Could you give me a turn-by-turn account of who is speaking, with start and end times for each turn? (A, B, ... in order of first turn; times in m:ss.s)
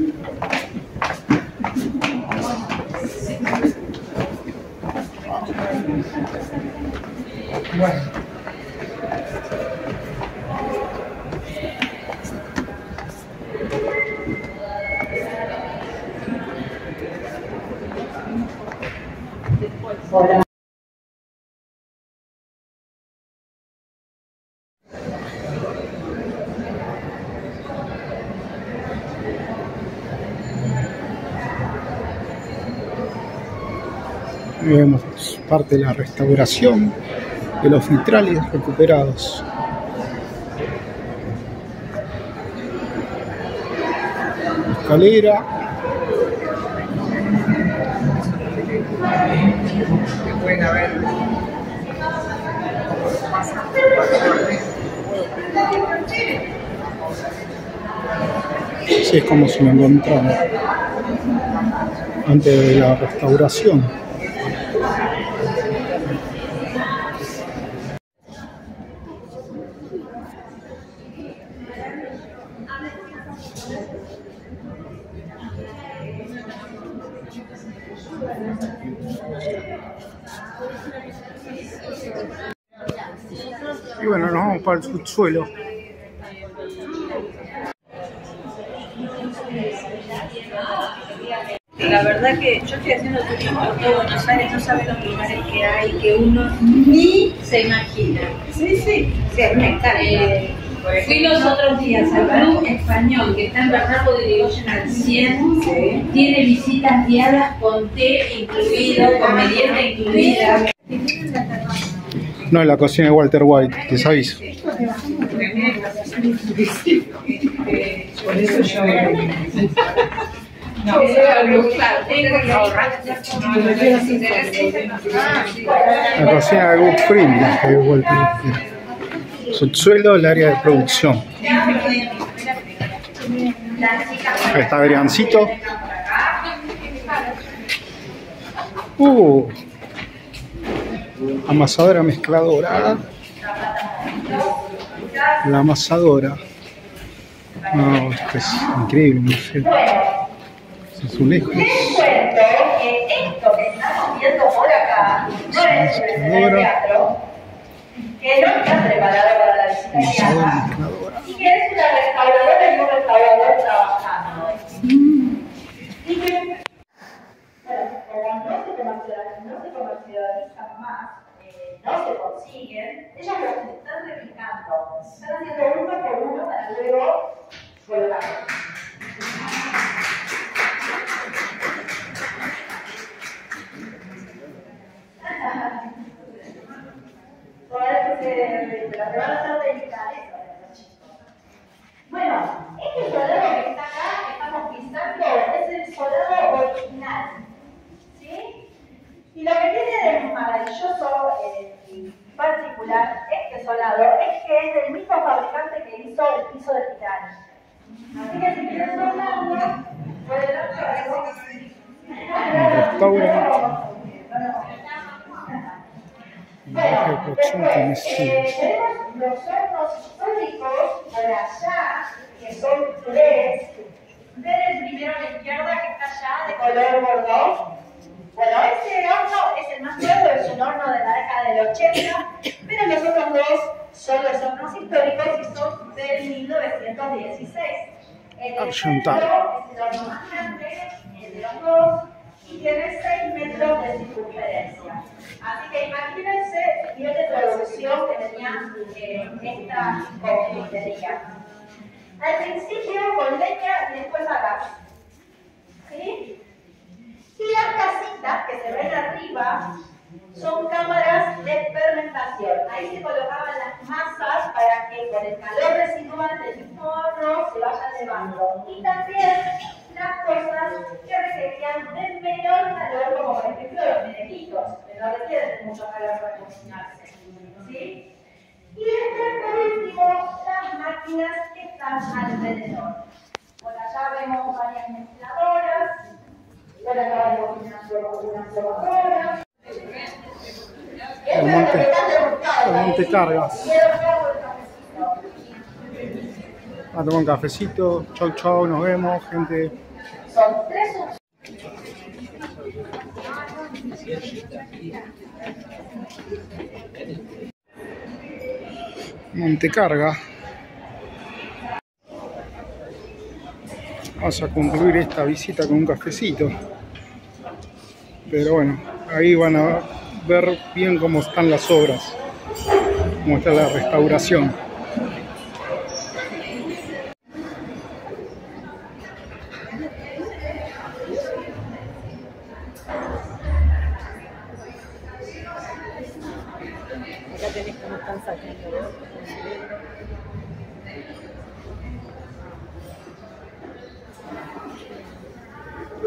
0:07.7-0:08.1 A
0:34.6-0:37.0 A
0:37.6-0:39.4 A
0:44.8-0:45.4 A
0:59.0-1:00.4 A
1:02.2-1:03.9 A
1:24.0-1:25.5 A
1:31.8-1:50.7 B
1:52.5-1:54.5 A
1:55.2-1:59.5 B
2:00.8-2:05.6 B
2:05.5-2:07.5 C
2:06.1-2:08.6 A
2:09.5-2:11.3 A
2:11.4-2:12.0 C
2:11.6-2:11.9 B
2:13.7-2:16.5 C
2:14.5-2:15.5 A
2:19.0-2:19.6 A
2:21.4-2:23.0 A
2:23.4-2:25.4 C
2:25.4-2:26.4 A
2:27.6-2:28.3 C
2:27.7-2:29.7 A
2:29.6-2:30.2 C
2:30.9-2:31.8 A
2:31.5-2:37.2 C
2:35.5-2:36.7 A
2:38.2-2:40.6 C
2:39.9-2:41.3 A
2:41.2-2:44.8 C
2:46.0-2:46.6 C
2:47.6-2:58.5 C
3:05.2-3:05.8 C
3:07.7-3:11.1 C
3:12.1-3:17.4 C
3:18.1-3:18.6 C
3:19.3-3:27.4 C
3:28.1-3:31.6 C
3:32.1-3:35.5 C
3:32.5-3:33.6 A
3:36.6-3:38.5 A
3:36.7-3:43.8 C
3:44.3-3:47.7 C
3:48.3-4:11.2 C
3:58.6-3:59.3 A
4:12.2-4:14.7 C
4:15.8-4:16.3 C
4:17.4-4:19.7 C
4:20.3-4:38.0 C
4:38.7-4:43.0 C
4:43.6-4:46.0 C
4:46.8-4:49.4 C
4:51.2-4:55.3 C
4:51.3-4:53.7 A
4:56.9-4:59.7 A
5:00.3-5:01.1 C
5:09.3-5:10.2 A
5:14.2-5:16.6 A
5:18.2-5:22.2 A
5:23.2-5:24.6 A